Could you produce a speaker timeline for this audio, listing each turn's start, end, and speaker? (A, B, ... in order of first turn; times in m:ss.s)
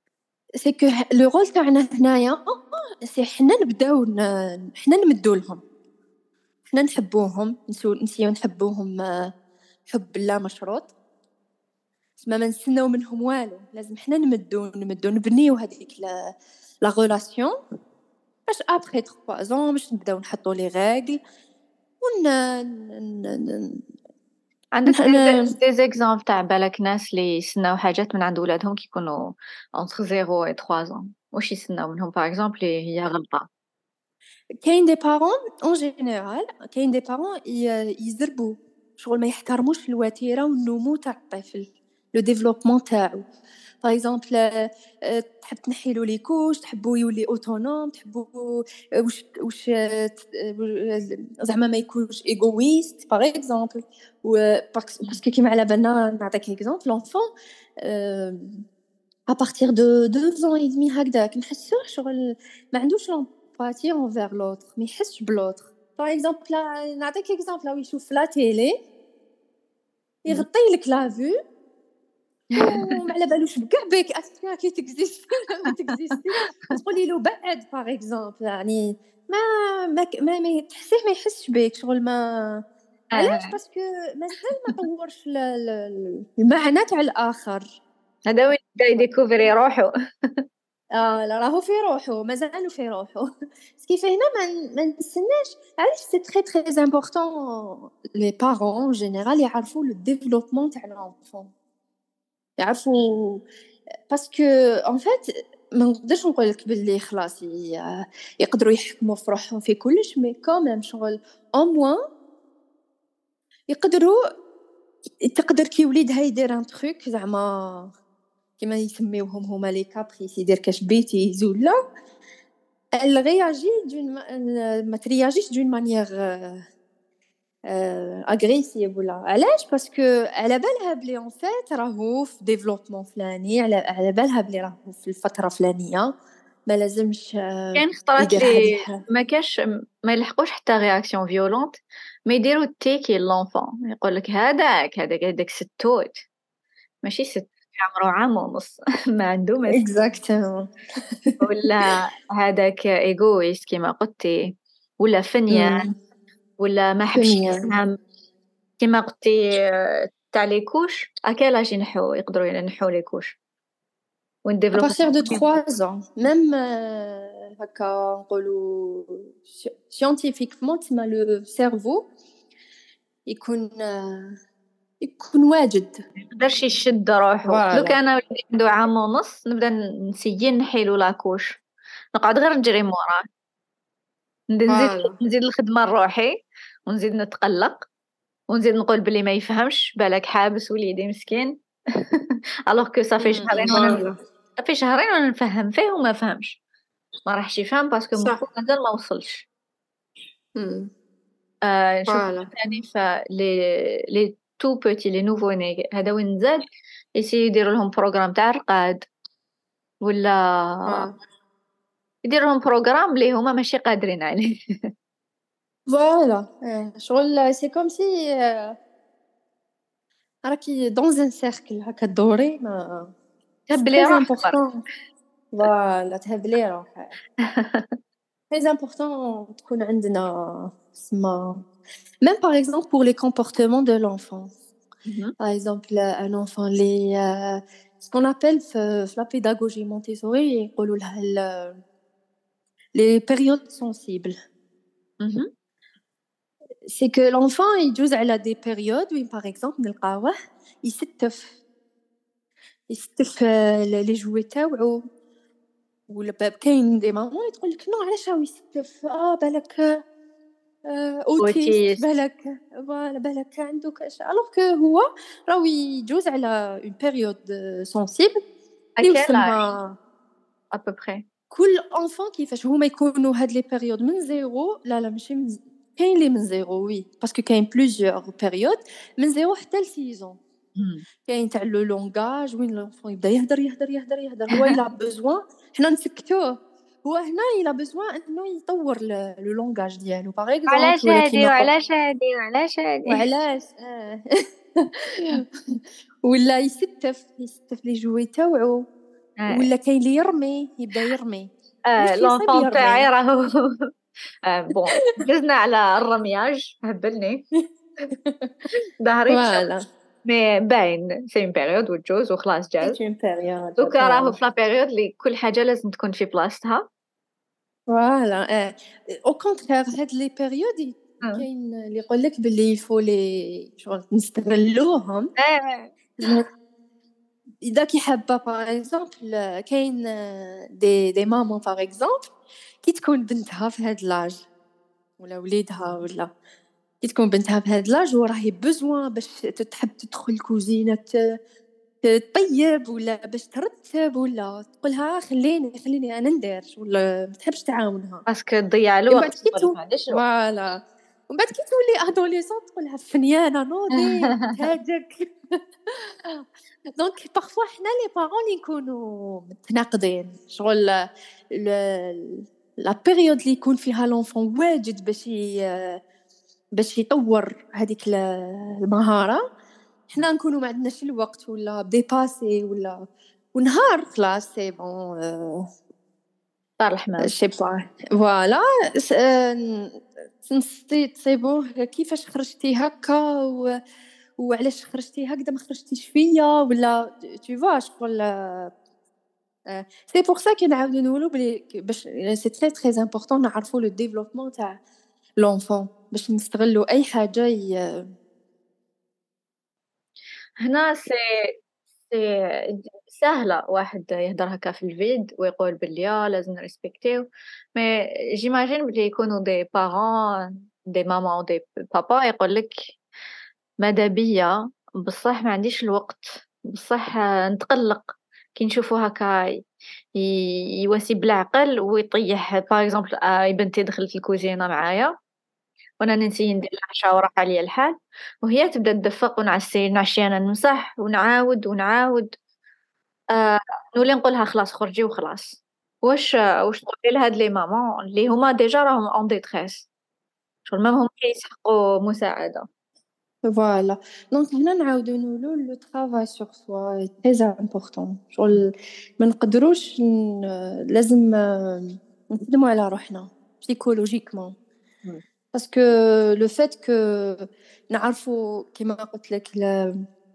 0:00.6-0:02.4 A
0:03.0-0:05.6 A
0:06.7-0:09.3 A
0:09.9-0:10.9 A
0:12.2-0:16.3 A
0:16.8-0:17.6 A
0:18.5-0:21.2 A
0:22.0-0:23.8 A
0:24.8-0:33.5 B
0:24.9-0:25.5 A
0:34.6-0:43.2 A
0:43.8-0:57.2 A
0:57.8-0:58.5 A
0:59.3-1:08.8 A
1:10.2-1:11.4 A
1:12.5-1:13.0 B
1:12.6-1:22.6 A
1:15.7-1:16.8 B
1:23.1-1:23.6 B
1:23.2-1:27.8 A
1:28.3-1:29.9 B
1:30.9-1:33.3 A
1:33.8-1:41.5 A
1:42.6-1:43.4 A
1:44.1-1:52.0 A
1:53.7-1:54.2 A
1:55.2-1:57.9 A
1:58.6-2:01.8 A
2:03.0-2:06.6 A
2:07.7-2:16.1 A
2:16.7-2:19.0 A
2:17.8-2:21.8 B
2:22.3-2:26.1 B
2:27.0-2:29.8 B
2:29.7-2:31.4 A
2:31.4-2:35.9 B
2:35.5-2:36.0 A
2:36.6-2:38.0 B
2:37.1-2:37.7 A
2:38.8-2:43.4 B
2:44.5-2:45.6 B
2:44.7-2:52.1 A
2:53.3-2:54.4 A
2:55.0-2:56.0 A
2:56.2-3:01.6 B
2:57.5-2:58.0 A
3:02.2-3:03.2 B
3:04.5-3:06.4 B
3:04.7-3:05.2 A
3:06.9-3:07.8 B
3:08.5-3:11.6 B
3:12.1-3:14.0 B
3:13.2-3:14.1 A
3:14.6-3:16.6 B
3:17.3-3:19.5 B
3:18.2-3:18.4 A
3:20.6-3:20.9 A
3:21.7-3:26.6 B
3:22.1-3:22.5 A
3:27.2-3:29.1 B
3:30.0-3:31.1 B
3:30.9-3:31.1 A
3:32.2-3:34.5 B
3:35.9-3:38.8 A
3:40.4-3:43.1 A
3:43.7-3:44.6 B
3:43.8-3:44.8 A
3:45.5-3:47.1 A
3:47.4-3:48.0 B
3:48.5-3:51.6 A
3:52.2-3:54.5 A
3:55.1-3:55.3 B
3:55.4-4:01.8 A
4:03.0-4:04.3 A
4:05.2-4:05.5 B
4:06.9-4:11.6 A
4:12.9-4:15.0 A
4:16.1-4:20.0 A
4:20.9-4:28.4 A
4:21.4-4:22.0 B
4:29.0-4:29.6 B
4:29.0-4:30.0 A
4:30.7-4:31.2 B
4:31.5-4:40.4 A
4:40.8-4:41.0 B
4:41.2-4:51.7 A
4:50.7-4:53.2 B
4:53.1-4:54.2 A
4:54.8-4:55.4 A
4:56.2-4:58.8 A
4:59.4-4:59.7 B
4:59.5-5:03.1 A
5:01.9-5:03.7 B
5:04.5-5:07.4 B
5:08.1-5:08.5 A
5:09.0-5:09.6 B
5:09.3-5:09.8 A
5:10.2-5:13.0 B
5:12.8-5:14.4 A
5:13.8-5:16.9 B
5:17.9-5:25.3 A
5:25.4-5:25.9 B
5:27.6-5:34.5 A
5:35.2-5:36.3 A
5:37.0-5:41.2 A
5:42.0-5:48.2 A
5:48.3-5:50.2 B
5:49.1-5:55.3 A
5:53.9-5:54.5 B
5:55.9-5:56.4 A
5:57.0-6:01.0 A
6:01.5-6:06.0 A
6:06.8-6:09.4 A
6:10.1-6:13.0 A
6:13.6-6:15.6 A
6:16.8-6:17.3 B
6:17.2-6:23.8 A
6:24.4-6:28.7 A
6:29.7-6:34.8 A
6:35.4-6:38.1 A
6:40.6-6:41.2 B
6:42.1-6:52.7 B
6:53.8-6:59.6 B
7:00.2-7:05.1 B
7:06.0-7:12.3 B
7:13.3-7:19.9 B
7:20.7-7:22.7 B
7:23.5-7:34.6 A
7:35.5-7:40.0 A